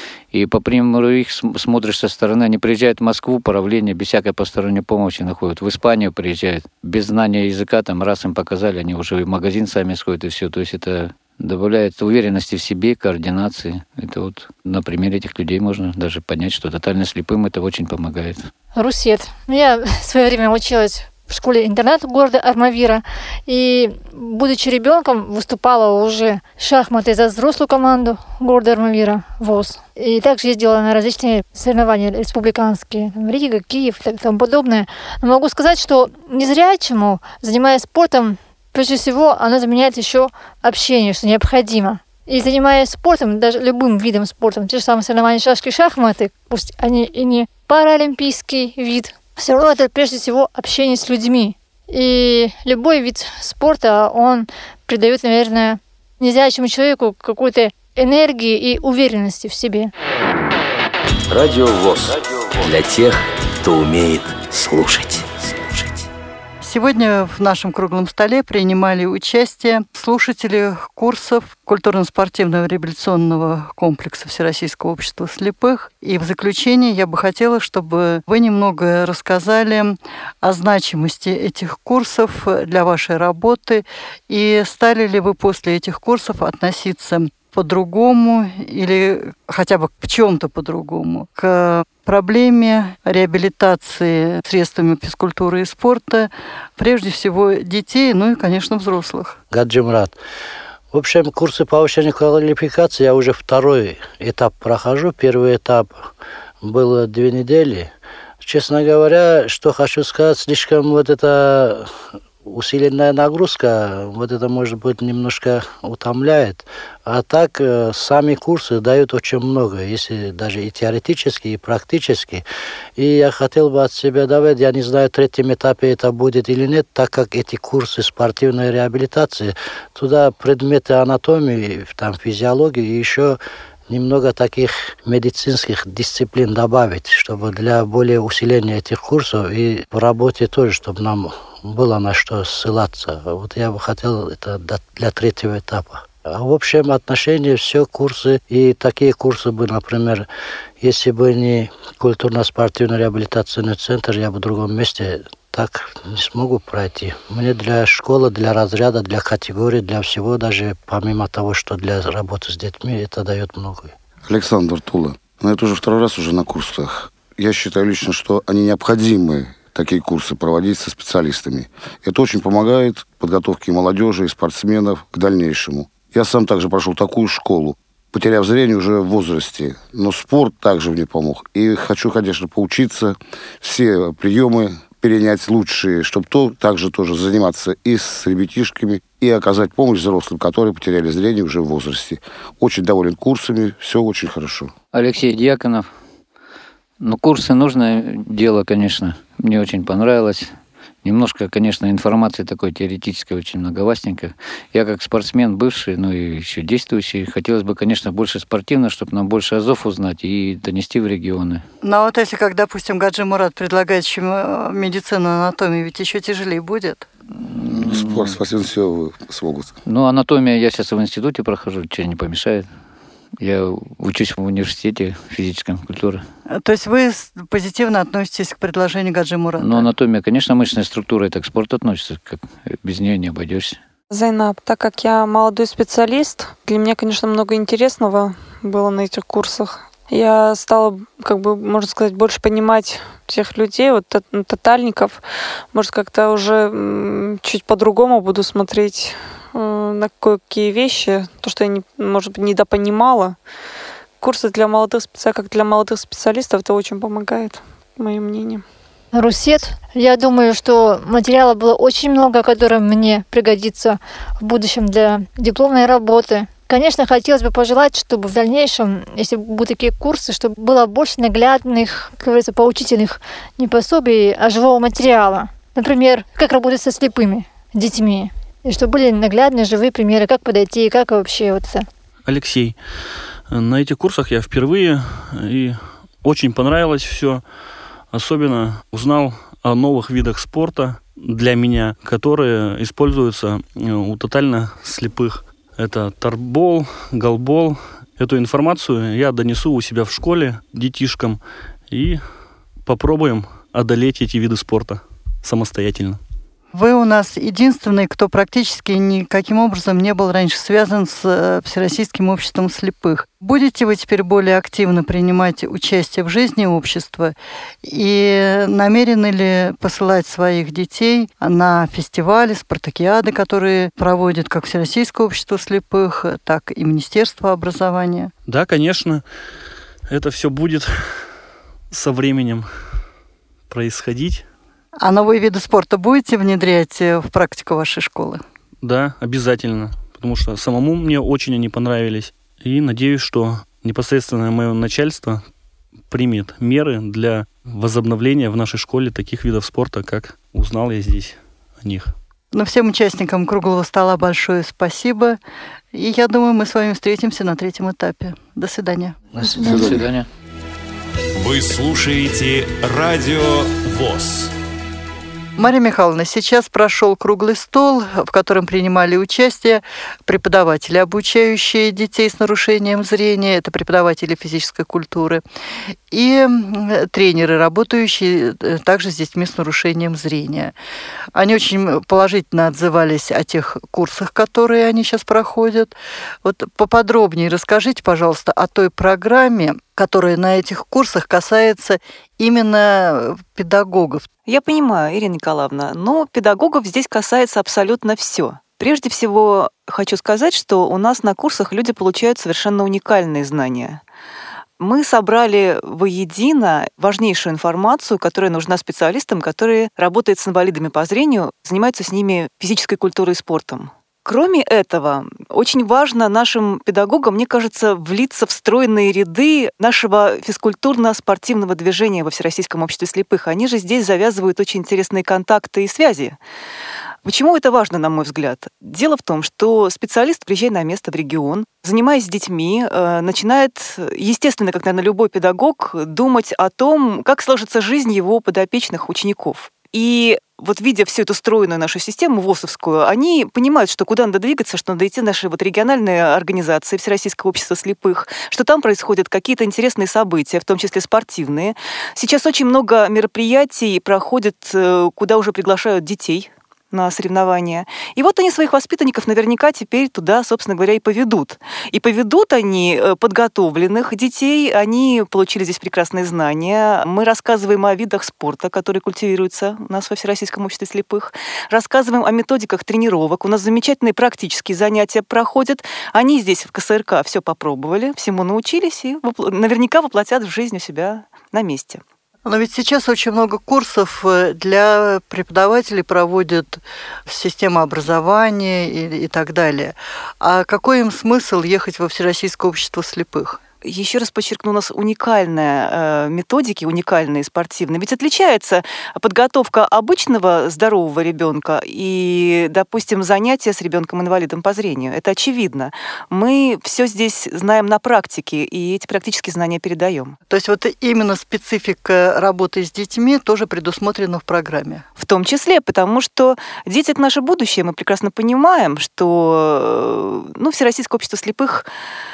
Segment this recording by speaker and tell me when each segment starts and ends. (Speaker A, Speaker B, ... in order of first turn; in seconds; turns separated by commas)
Speaker A: 0.3-18.5, Speaker B: 18.8-59.9, Speaker C: 61.3-66.0, Speaker D: 66.6-99.4, Speaker E: 99.5-100.2, Speaker E: 100.9-105.9, Speaker E: 106.6-111.9, Speaker E: 112.4-122.4, Speaker E: 123.0-133.4, Speaker E: 133.9-150.3, Speaker E: 150.8-163.9, Speaker F: 164.3-194.7, Speaker A: 194.9-195.9, Speaker A: 197.0-200.5, Speaker A: 201.0-211.6, Speaker D: 211.8-217.1, Speaker A: 217.5-218.4, Speaker F: 217.7-219.7, Speaker A: 219.8-222.7, Speaker A: 223.4-226.2, Speaker D: 226.5-229.9, Speaker A: 229.6-233.8, Speaker G: 234.1-253.4, Speaker G: 254.2-258.6, Speaker B: 259.1-281.9, Speaker H: 282.3-282.8, Speaker H: 283.5-287.4, Speaker H: 288.1-302.2, Speaker H: 302.9-306.2, Speaker D: 306.7-328.3, Speaker H: 328.5-329.2, Speaker H: 330.1-331.3, Speaker H: 331.9-332.7, Speaker H: 333.7-334.4, Speaker D: 335.0-338.4, Speaker H: 338.8-345.4, Speaker H: 346.1-352.1, Speaker D: 352.5-355.4, Speaker D: 355.9-359.2, Speaker A: 359.4-360.3, Speaker F: 359.6-360.1, Speaker I: 361.4-364.5, Speaker D: 365.6-375.4, Speaker D: 376.1-380.7, Speaker D: 381.3-394.3, Speaker J: 394.5-404.0, Speaker J: 404.8-426.4, Speaker J: 427.2-482.0, Speaker D: 482.5-493.6, Speaker J: 493.8-510.4, Speaker D: 510.5-515.0, Speaker J: 515.2-521.9